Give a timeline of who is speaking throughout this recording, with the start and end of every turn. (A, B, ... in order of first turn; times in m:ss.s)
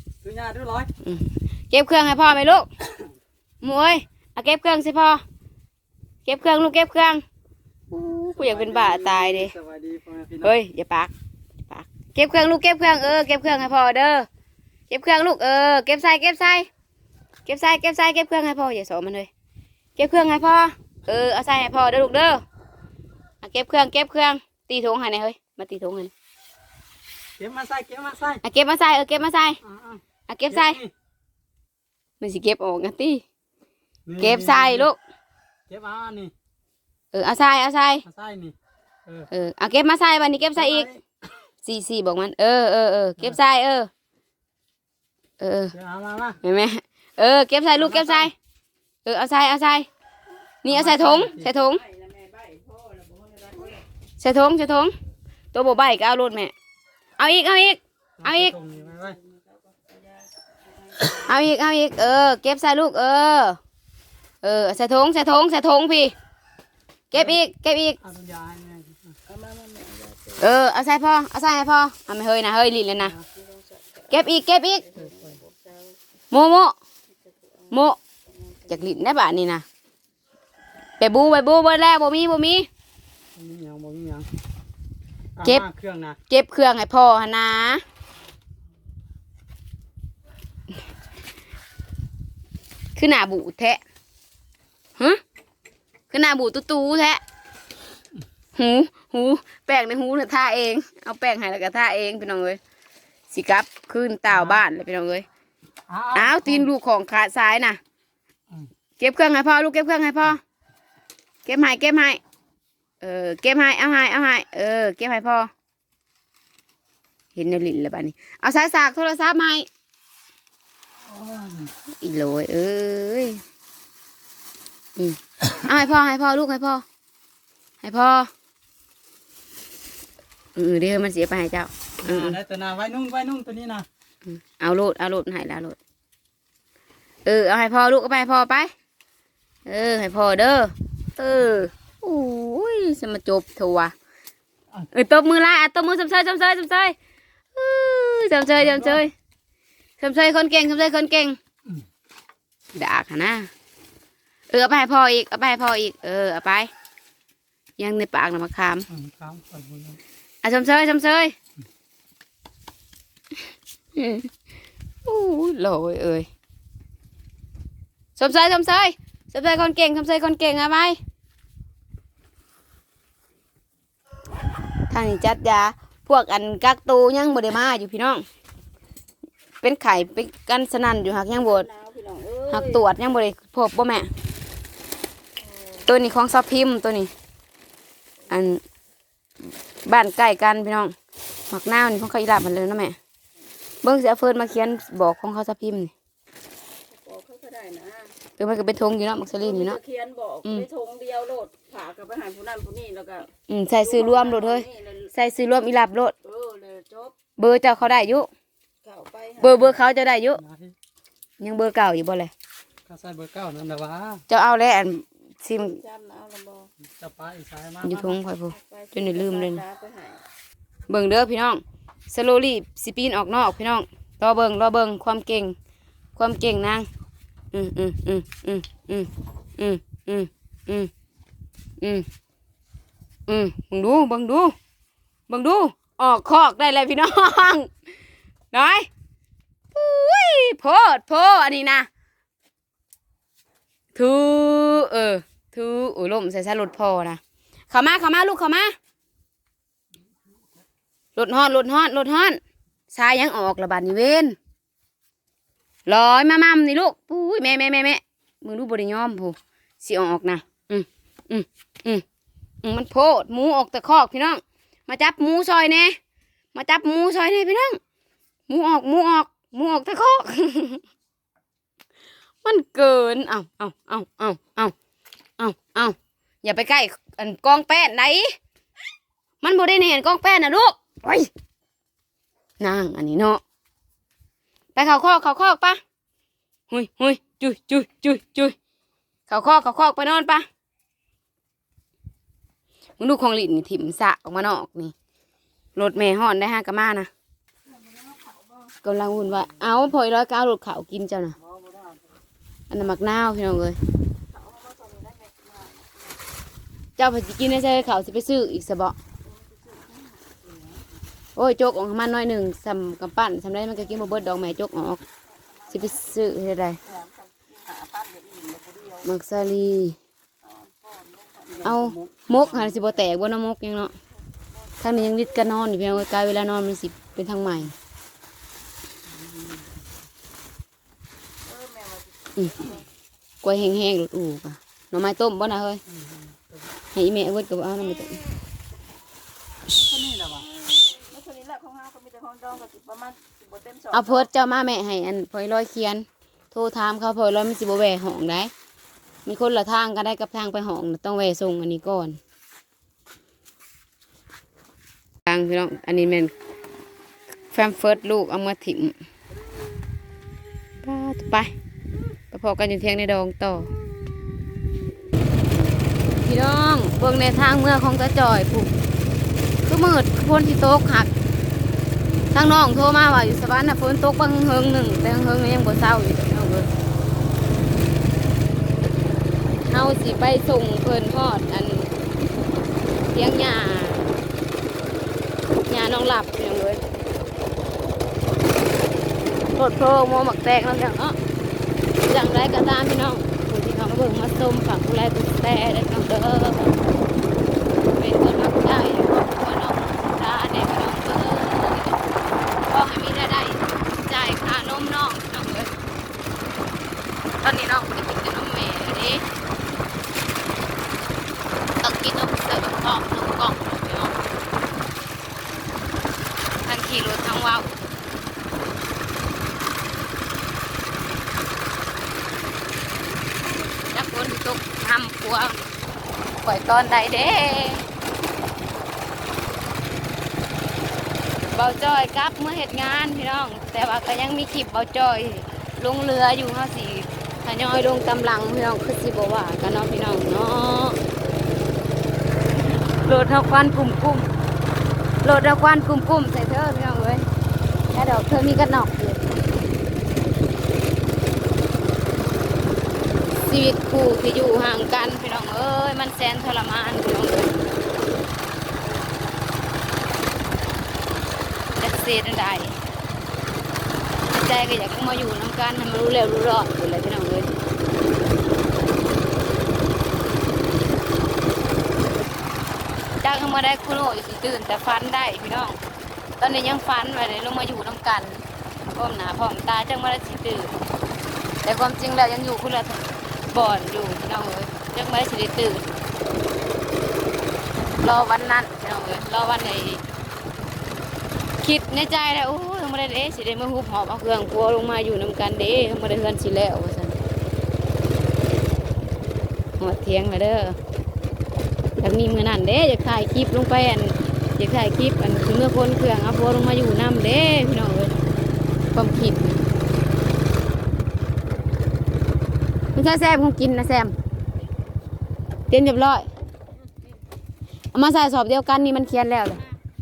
0:00.2-0:00.9 A
0:01.0-0:02.7 B
0:03.6-0:05.2 B
0:06.2-0:07.2 B
0:07.9-0:09.5 B
0:08.4-0:10.5 A
0:10.4-0:11.1 B
0:11.7-0:14.3 B
0:14.9-0:16.7 B
0:17.4-0:19.3 B
0:20.0-0:22.4 B
0:23.4-0:26.1 B
0:27.4-0:28.4 A
0:28.4-0:29.6 B
0:29.6-0:30.9 A
0:30.3-0:30.8 B
0:32.2-0:33.2 B
0:34.1-0:34.9 A
0:34.2-0:35.0 B
0:35.7-0:36.3 A
0:37.1-0:38.0 B
0:38.0-0:38.5 A
0:39.3-0:40.9 B
0:40.6-0:41.0 A
0:41.6-0:43.9 B
0:45.4-0:45.7 B
0:45.7-0:46.4 A
0:46.4-0:48.3 B
0:47.8-0:48.3 A
0:49.0-0:49.9 B
0:50.6-0:51.8 B
0:50.7-0:51.5 A
0:51.7-0:53.8 C
0:54.2-0:54.9 B
0:55.5-0:56.5 B
0:57.2-0:58.5 B
0:58.2-0:59.2 A
0:58.7-1:01.3 C
1:01.1-1:03.6 B
1:04.4-1:06.1 B
1:07.1-1:08.0 B
1:08.0-1:09.1 A
1:09.3-1:10.4 C
1:10.4-1:13.1 B
1:13.4-1:14.2 C
1:14.1-1:14.9 B
1:14.9-1:16.0 C
1:16.3-1:16.8 B
1:17.7-1:18.0 B
1:18.7-1:19.6 B
1:21.0-1:22.7 B
1:23.4-1:24.3 A
1:25.4-1:26.2 A
1:26.3-1:27.8 B
1:33.0-1:33.8 B
1:36.1-1:37.2 B
1:38.6-1:42.6 B
1:43.3-1:45.2 B
1:44.3-1:44.6 A
1:45.9-1:46.7 A
1:46.1-1:47.8 B
1:49.0-1:50.4 B
1:51.4-1:52.2 B
1:53.0-1:55.5 B
1:57.3-1:59.7 B
2:01.0-2:01.7 A
2:02.0-2:03.4 B
2:05.0-2:06.8 B
2:07.8-2:08.3 B
2:10.6-2:12.4 B
2:12.0-2:13.9 A
2:14.2-2:15.8 B
2:17.2-2:18.7 B
2:19.6-2:23.9 B
2:24.9-2:26.9 B
2:27.5-2:29.1 B
2:28.6-2:29.0 A
2:30.0-2:31.4 B
2:32.7-2:33.5 B
2:34.5-2:36.7 B
2:37.8-2:38.9 B
2:38.9-2:40.0 A
2:40.4-2:41.3 B
2:43.9-2:44.3 B
2:45.0-2:46.3 B
2:48.2-2:51.0 B
2:54.9-2:58.2 B
2:59.6-3:01.7 B
3:01.4-3:02.8 C
3:02.5-3:04.1 B
3:05.8-3:07.1 B
3:08.3-3:08.6 B
3:09.8-3:10.9 B
3:11.5-3:13.0 B
3:13.8-3:15.9 B
3:16.9-3:18.1 C
3:18.4-3:19.8 B
3:19.4-3:23.3 C
3:23.5-3:26.1 B
3:23.8-3:25.0 C
3:26.2-3:27.1 C
3:27.4-3:28.3 B
3:28.8-3:29.6 C
3:29.4-3:30.4 B
3:30.4-3:30.7 A
3:31.4-3:32.3 B
3:32.9-3:34.2 A
3:34.3-3:35.8 B
3:35.6-3:36.7 C
3:37.0-3:38.2 A
3:37.8-3:39.6 B
3:38.6-3:40.2 C
3:40.9-3:45.5 B
3:46.2-3:46.9 B
3:47.5-3:50.9 B
3:51.8-3:52.0 B
3:53.3-3:54.5 B
3:55.3-3:57.7 B
3:58.5-3:58.9 B
3:59.7-4:01.9 B
4:03.9-4:08.7 B
4:11.2-4:12.4 B
4:12.9-4:14.4 B
4:15.8-4:22.0 B
4:22.6-4:26.0 B
4:26.5-4:27.8 B
4:28.5-4:30.8 B
4:32.4-4:34.7 B
4:35.4-4:38.3 B
4:39.4-4:41.3 B
4:42.6-4:43.4 B
4:44.7-4:45.8 B
4:46.7-4:48.6 B
4:49.3-4:50.4 B
4:53.0-4:54.9 B
4:55.8-4:57.1 B
4:58.8-5:01.4 B
5:01.5-5:02.0 A
5:02.7-5:03.8 B
5:04.3-5:05.9 C
5:07.0-5:09.0 B
5:09.2-5:10.4 C
5:11.4-5:15.0 B
5:15.7-5:16.0 C
5:15.7-5:16.8 B
5:16.8-5:19.0 C
5:19.0-5:20.0 B
5:20.4-5:21.7 C
5:21.6-5:22.8 A
5:21.6-5:23.9 B
5:24.8-5:27.7 B
5:29.1-5:29.6 A
5:31.4-5:32.1 C
5:32.4-5:32.7 B
5:33.4-5:35.8 B
5:35.9-5:36.6 A
5:36.9-5:38.2 B
5:39.7-5:40.5 A
5:40.8-5:44.2 C
5:43.9-5:48.5 B
5:49.2-5:52.2 B
5:55.2-5:56.3 B
5:57.5-5:59.0 B
6:00.8-6:01.5 B
6:02.3-6:03.8 B
6:06.2-6:08.7 B
6:09.6-6:11.1 B
6:12.3-6:16.7 B
6:19.6-6:21.9 B
6:23.1-6:24.2 B
6:25.5-6:26.8 B
6:29.5-6:31.2 B
6:32.0-6:36.8 B
6:37.9-6:42.0 B
6:42.6-6:45.7 B
6:47.4-6:49.2 B
6:51.8-6:54.2 B
6:56.6-6:57.8 B
7:03.8-7:05.6 B
7:06.4-7:07.8 B
7:11.5-7:21.0 B
7:22.9-7:24.3 B
7:25.2-7:27.2 B
7:27.9-7:29.2 B
7:33.4-7:37.5 B
7:41.8-7:42.8 B
7:44.3-7:47.5 B
7:53.2-7:55.8 B
7:56.4-7:58.4 B
7:58.9-8:00.7 B
8:01.6-8:03.0 B
8:03.5-8:05.9 B
8:08.0-8:10.0 B
8:11.6-8:17.1 B
8:19.8-8:20.8 B
8:22.0-8:28.1 B
8:28.9-8:29.6 B
8:32.9-8:34.1 B
8:35.7-8:36.3 B
8:37.9-8:39.6 B